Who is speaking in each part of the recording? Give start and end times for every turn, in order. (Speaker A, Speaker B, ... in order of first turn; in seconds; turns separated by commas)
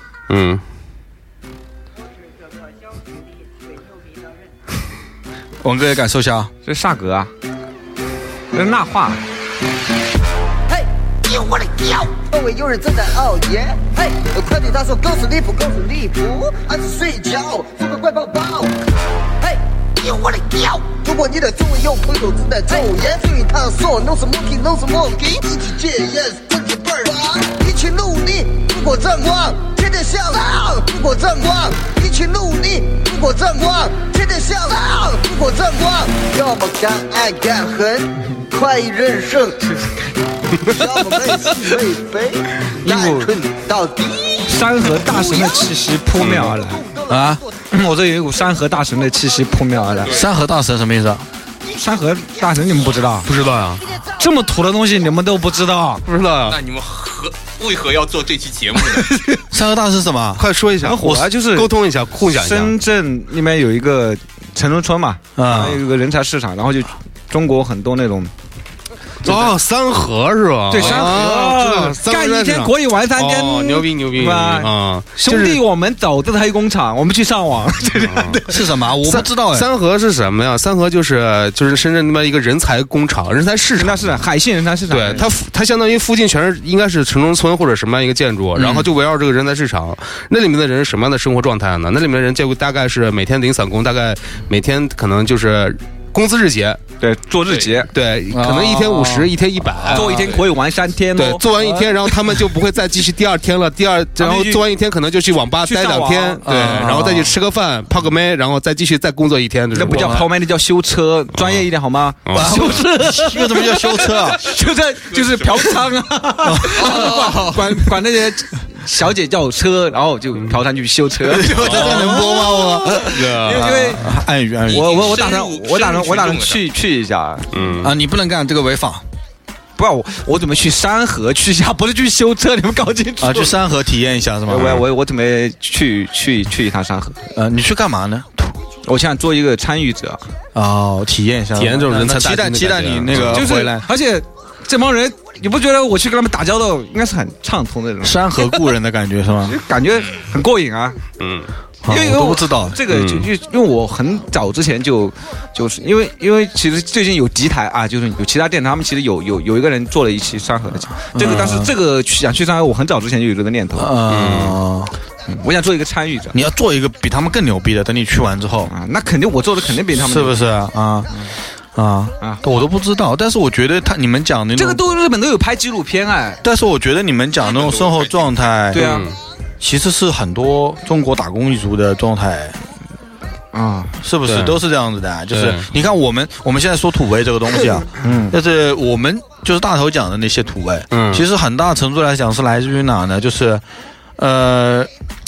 Speaker A: 0.3-0.6, Speaker B: 5.6-6.5, Speaker C: 6.7-7.3, Speaker C: 8.5-9.2, Speaker D: 10.7-18.8, Speaker D: 19.4-45.7, Speaker C: 42.8-43.3, Speaker C: 44.5-46.9, Speaker A: 46.2-46.6, Speaker D: 46.9-47.2, Speaker B: 47.1-47.4, Speaker C: 47.7-50.2, Speaker E: 50.0-50.3, Speaker B: 50.0-51.2, Speaker C: 51.7-53.3, Speaker A: 53.2-53.8, Speaker C: 54.2-56.0, Speaker A: 56.1-56.6, Speaker E: 56.5-59.1, Speaker C: 58.8-59.4, Speaker B: 59.5-60.5, Speaker A: 60.4-62.8, Speaker C: 60.8-61.7, Speaker C: 62.2-68.3, Speaker B: 65.4-65.8, Speaker A: 69.2-75.6, Speaker C: 69.2-69.5, Speaker C: 70.7-78.7, Speaker A: 78.0-78.5, Speaker B: 78.5-79.7, Speaker A: 79.0-84.1, Speaker C: 83.8-85.3, Speaker A: 84.9-96.8, Speaker C: 88.6-88.8, Speaker C: 97.0-97.9, Speaker A: 97.9-100.4, Speaker B: 98.3-99.3, Speaker C: 99.8-101.9, Speaker E: 100.0-100.4, Speaker A: 101.2-110.3, Speaker C: 104.2-104.6, Speaker C: 105.6-106.5, Speaker B: 106.4-107.4, Speaker C: 109.7-124.2, Speaker A: 111.4-111.7, Speaker A: 112.2-112.8, Speaker B: 112.3-114.4, Speaker E: 115.1-115.8, Speaker B: 116.5-117.2, Speaker E: 116.8-117.7, Speaker B: 121.3-125.2, Speaker A: 121.6-122.4, Speaker A: 123.0-123.9, Speaker E: 124.7-126.7, Speaker C: 124.7-127.5, Speaker A: 127.5-127.9, Speaker B: 127.8-129.0, Speaker C: 129.8-133.6, Speaker B: 133.2-134.8, Speaker C: 134.5-137.2, Speaker B: 137.3-138.6, Speaker C: 138.8-140.2, Speaker B: 140.6-143.9, Speaker A: 141.6-143.5, Speaker C: 143.2-148.6, Speaker B: 148.0-149.6, Speaker C: 149.5-151.0, Speaker E: 150.0-150.2, Speaker A: 151.2-151.5, Speaker B: 151.8-152.8, Speaker C: 151.9-164.0, Speaker A: 152.9-153.3, Speaker B: 161.1-161.7, Speaker B: 163.8-164.9, Speaker A: 164.1-164.6, Speaker C: 165.3-166.4, Speaker B: 166.3-168.7, Speaker C: 168.7-170.4, Speaker B: 169.9-171.1, Speaker B: 171.8-174.8, Speaker C: 174.6-176.4, Speaker B: 176.4-178.9, Speaker E: 177.4-178.2, Speaker C: 178.7-179.1, Speaker A: 178.8-179.2, Speaker B: 179.6-182.6, Speaker C: 183.5-183.9, Speaker B: 184.0-193.6, Speaker A: 184.3-184.6, Speaker A: 185.3-185.7, Speaker C: 188.0-188.3, Speaker A: 190.9-191.2, Speaker B: 194.2-194.9